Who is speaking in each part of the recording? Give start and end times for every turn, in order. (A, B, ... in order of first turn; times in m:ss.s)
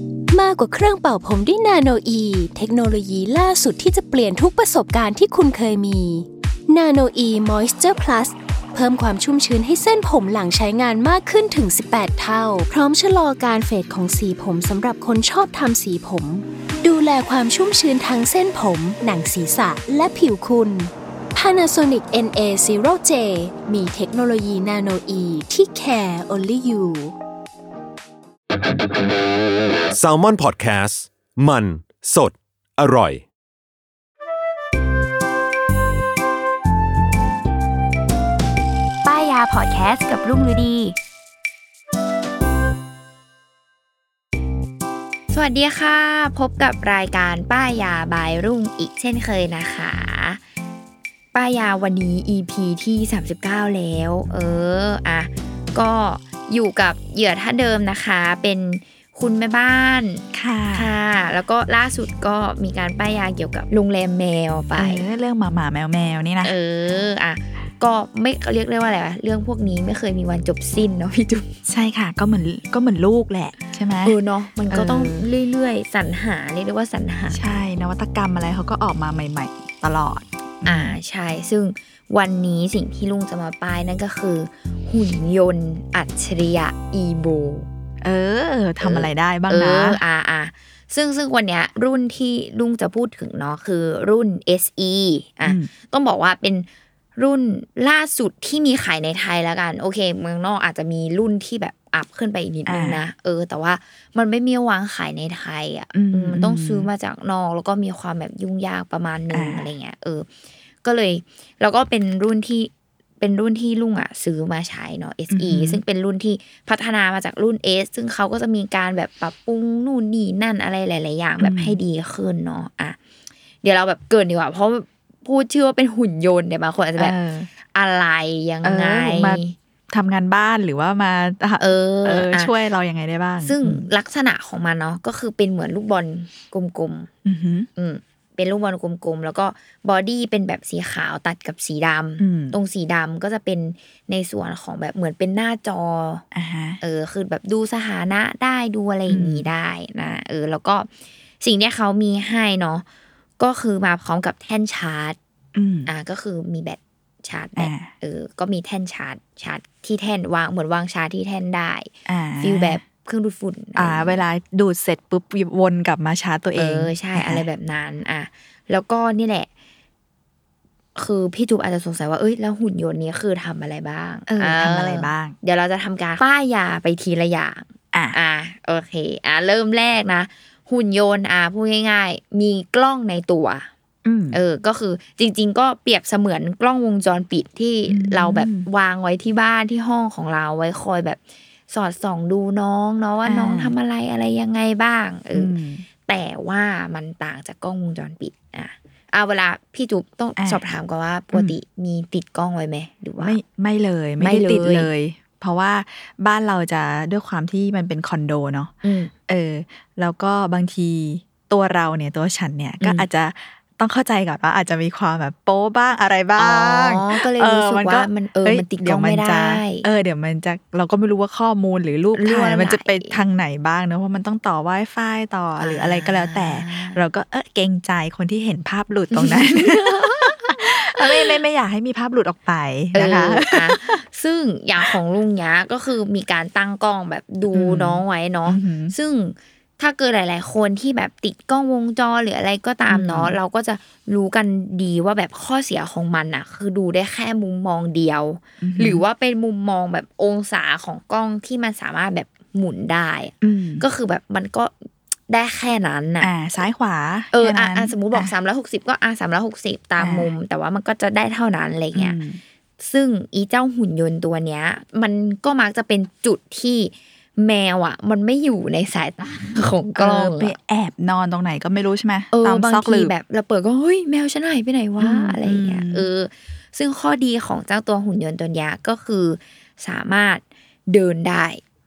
0:00.3-0:27.1 A
0:29.9-0:33.2 B
0:39.0-0:41.0 C
0:45.3-0:50.4 C
0:51.3-1:05.1 C
1:00.3-1:00.9 D
1:04.8-1:06.6 D
1:06.4-1:11.5 C
1:11.6-1:14.2 D
1:14.0-1:17.5 C
1:14.7-1:15.3 D
1:17.3-1:21.0 D
1:20.6-1:27.7 C
1:28.0-1:30.0 D
1:28.8-1:50.3 C
1:35.4-1:35.7 D
1:42.7-1:43.0 D
1:45.9-1:46.9 D
1:49.3-1:49.7 D
1:50.8-2:03.0 C
1:55.3-1:55.8 D
2:01.4-2:01.8 D
2:03.6-2:07.2 C
2:07.0-2:07.5 D
2:07.7-2:09.5 C
2:08.6-2:13.9 D
2:11.6-2:12.5 C
2:13.4-2:17.1 C
2:17.2-2:17.7 D
2:17.8-2:26.2 C
2:22.2-2:22.6 D
2:26.3-2:26.8 D
2:26.8-2:30.9 C
2:29.1-2:29.5 D
2:31.4-2:32.8 C
2:33.4-2:35.2 C
2:35.5-2:35.9 D
2:35.8-2:44.2 C
2:37.6-2:37.9 D
2:42.1-2:42.8 D
2:43.8-2:47.4 D
2:46.6-2:49.5 C
2:50.9-3:03.7 C
2:54.3-2:55.3 D
2:57.9-2:58.2 D
3:04.0-3:04.4 D
3:04.3-3:15.5 C
3:07.9-3:08.7 D
3:13.2-3:13.8 D
3:15.3-3:15.8 D
3:16.0-3:23.4 C
3:20.4-3:20.6 D
3:23.2-3:28.7 D
3:24.2-3:24.9 C
3:28.8-3:29.1 C
3:29.3-3:54.0 D
3:32.8-3:33.1 C
3:36.4-3:39.9 C
3:42.1-3:43.2 C
3:45.6-3:47.0 C
3:49.1-3:51.4 C
3:52.9-4:14.8 C
3:57.5-3:58.9 D
4:02.9-4:03.4 D
4:08.6-4:09.0 D
4:13.4-4:13.8 D
4:15.3-4:16.3 C
4:16.2-4:18.3 D
4:17.3-4:22.2 C
4:20.0-4:20.3 D
4:21.9-4:22.4 D
4:22.8-4:30.5 C
4:29.9-4:33.1 D
4:32.3-4:41.6 C
4:35.0-4:36.1 D